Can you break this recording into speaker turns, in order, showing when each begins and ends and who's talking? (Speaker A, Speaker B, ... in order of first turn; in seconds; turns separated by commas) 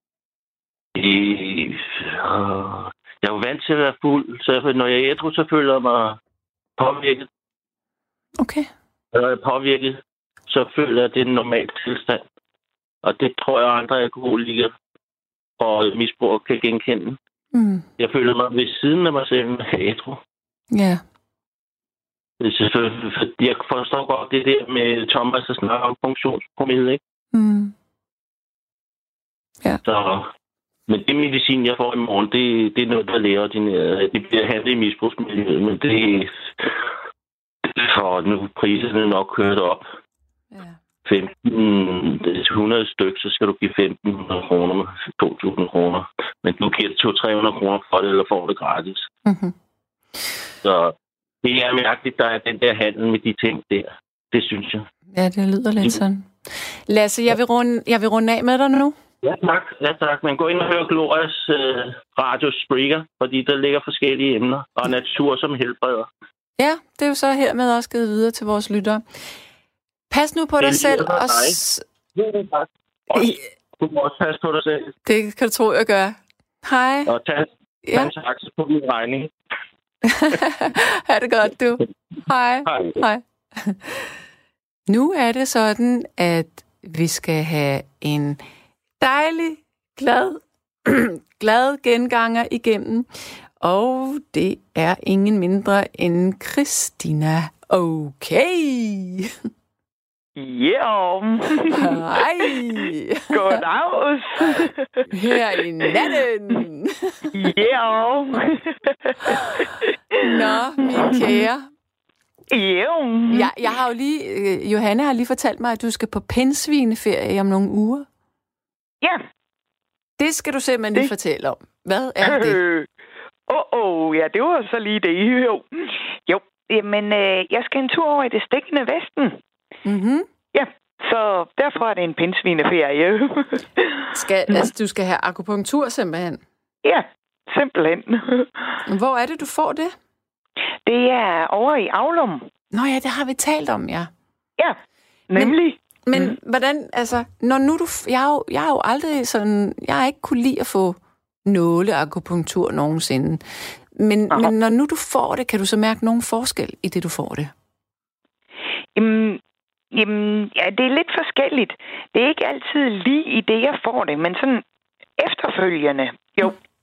Speaker A: 0.9-6.2, Speaker A: 6.8-7.3, Speaker B: 8.4-8.7, Speaker A: 9.1-12.2, Speaker A: 13.0-14.7, Speaker A: 15.6-17.2, Speaker B: 17.5-17.9, Speaker A: 18.0-20.2, Speaker B: 20.7-21.0, Speaker A: 22.4-27.0, Speaker B: 27.3-27.7, Speaker A: 29.9-30.3, Speaker A: 30.9-36.8, Speaker A: 37.6-39.9, Speaker B: 40.5-40.8, Speaker A: 41.0-49.1, Speaker B: 49.2-49.5, Speaker A: 50.6-54.9, Speaker B: 55.1-56.3, Speaker B: 56.9-59.0, Speaker A: 59.2-66.1, Speaker B: 66.6-69.0, Speaker B: 70.1-71.8, Speaker A: 70.6-71.6, Speaker A: 72.2-74.9, Speaker B: 73.1-73.4, Speaker B: 75.1-77.1, Speaker A: 77.1-79.3, Speaker B: 77.8-78.1, Speaker B: 80.0-84.1, Speaker A: 82.7-83.0, Speaker B: 84.9-88.4, Speaker B: 89.0-93.1, Speaker B: 93.6-99.3, Speaker C: 100.4-106.2, Speaker B: 101.7-103.6, Speaker B: 105.1-107.5, Speaker C: 107.3-111.5, Speaker B: 109.3-109.5, Speaker B: 110.2-111.7, Speaker C: 112.5-113.5, Speaker B: 113.3-118.1, Speaker B: 120.2-122.6, Speaker C: 122.2-122.9, Speaker C: 123.5-129.4, Speaker B: 129.8-130.3, Speaker C: 130.5-134.7, Speaker B: 134.1-136.4, Speaker C: 136.8-138.8, Speaker B: 138.8-139.9, Speaker C: 140.9-142.5, Speaker B: 142.7-144.1, Speaker C: 145.3-146.3, Speaker B: 146.1-153.4, Speaker B: 153.9-157.5, Speaker C: 159.0-159.4, Speaker C: 159.9-164.6, Speaker C: 165.2-166.6